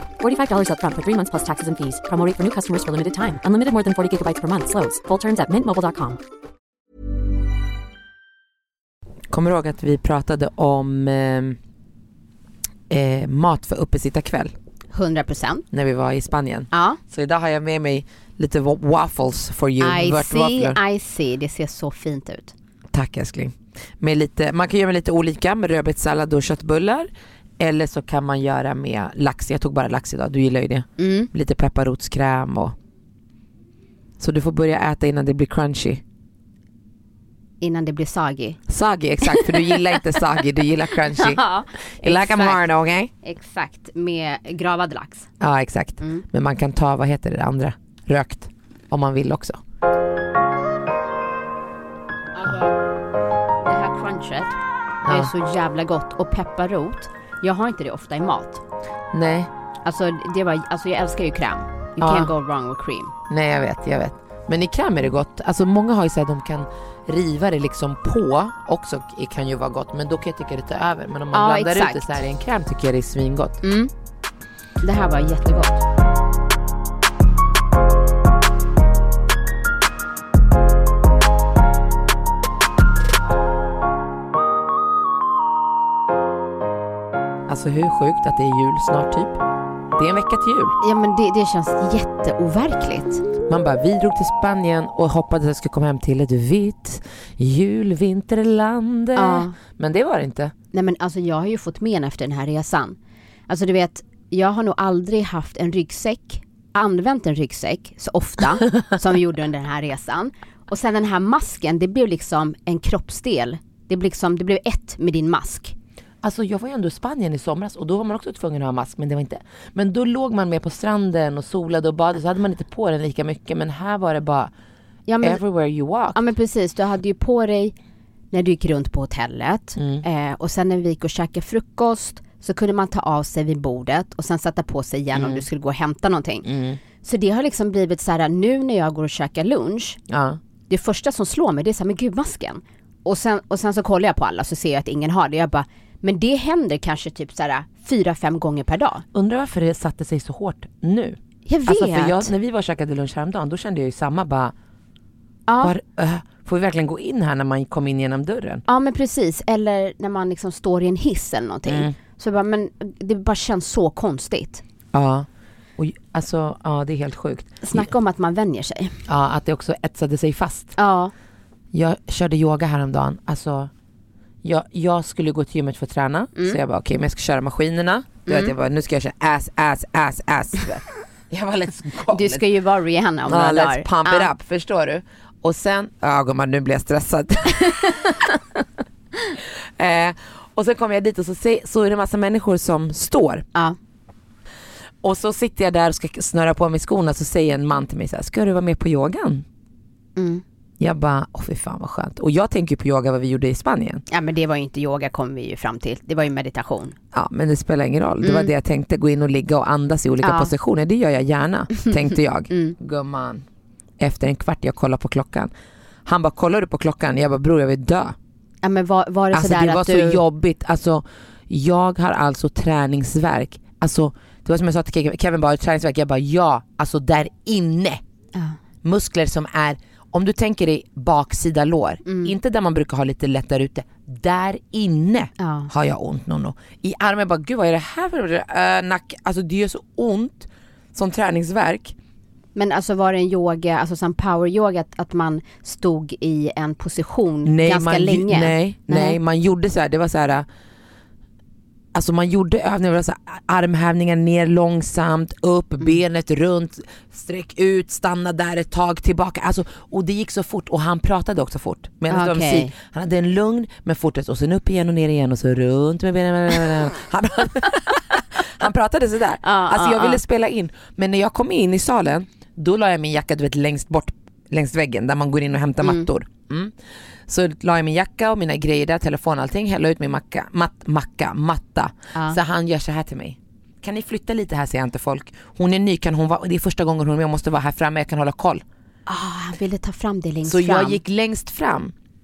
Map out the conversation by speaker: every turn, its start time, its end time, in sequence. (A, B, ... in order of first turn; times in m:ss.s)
0:00.2-0:06.2 A
0:09.3-0:11.6 B
0:12.9-0:14.5 B
0:14.9-0:15.6 C
0:15.7-0:20.8 B
0:16.7-0:17.0 C
0:19.8-0:22.6 C
0:22.9-0:32.8 B
0:31.0-0:31.3 C
0:34.2-0:36.0 B
0:37.6-0:38.6 C
0:38.7-0:41.4 B
0:39.2-0:40.2 C
0:41.1-0:42.6 C
0:42.0-0:43.1 B
0:43.2-0:45.3 C
0:45.4-0:49.6 B
0:52.4-0:52.8 C
0:53.6-0:54.6 C
0:55.0-0:55.3 B
0:55.1-0:58.6 C
0:59.1-0:59.5 B
0:59.9-1:03.1 C
1:02.0-1:02.3 B
1:03.3-1:13.6 B
1:11.3-1:12.2 C
1:13.6-1:13.9 C
1:14.8-1:15.8 C
1:27.5-1:29.4 B
1:29.9-1:30.8 B
1:30.8-1:33.2 C
1:33.5-1:40.5 B
1:39.2-1:39.5 C
1:40.7-1:43.0 C
1:43.5-1:55.8 C
1:56.2-2:04.5 B
2:05.1-2:05.4 C
2:05.2-2:06.2 B
2:06.1-2:07.7 C
2:08.3-2:16.5 C
2:09.8-2:10.0 B
2:15.1-2:15.4 B
2:16.4-2:16.8 B
2:17.0-2:20.0 C
2:20.1-2:20.4 B
2:20.7-2:29.0 C
2:29.1-2:34.5 B
2:31.5-2:32.3 C
2:35.5-2:35.8 C
2:35.6-2:38.6 B
2:38.7-2:44.6 C
2:41.7-2:42.0 B
2:44.9-2:45.3 B
2:45.8-2:47.9 B
2:47.6-2:49.0 C
2:49.1-2:50.8 B
2:50.8-2:51.1 C
2:51.7-2:53.7 B
2:54.4-3:02.5 B
2:58.3-2:58.5 C
3:02.1-3:04.3 C
3:03.3-3:08.6 B
3:09.3-3:13.5 B
3:15.0-3:19.4 B
3:20.2-3:20.4 C
3:20.8-3:24.0 B
3:24.1-3:27.0 C
3:27.1-3:33.4 B
3:28.2-3:28.5 C
3:30.2-3:30.5 C
3:34.0-3:35.5 B
3:36.1-3:38.2 B
3:38.6-3:40.2 C
3:39.3-3:48.0 B
3:48.8-4:02.0 B
3:52.0-3:52.3 C
3:55.4-3:55.7 C
4:02.6-4:09.2 C
4:07.4-4:10.5 B
4:11.9-4:36.8 B
4:22.1-4:22.7 C
4:29.4-4:30.2 C
4:35.8-4:36.1 C
4:37.3-4:48.6 B
4:49.1-4:51.0 C
4:50.4-4:51.9 B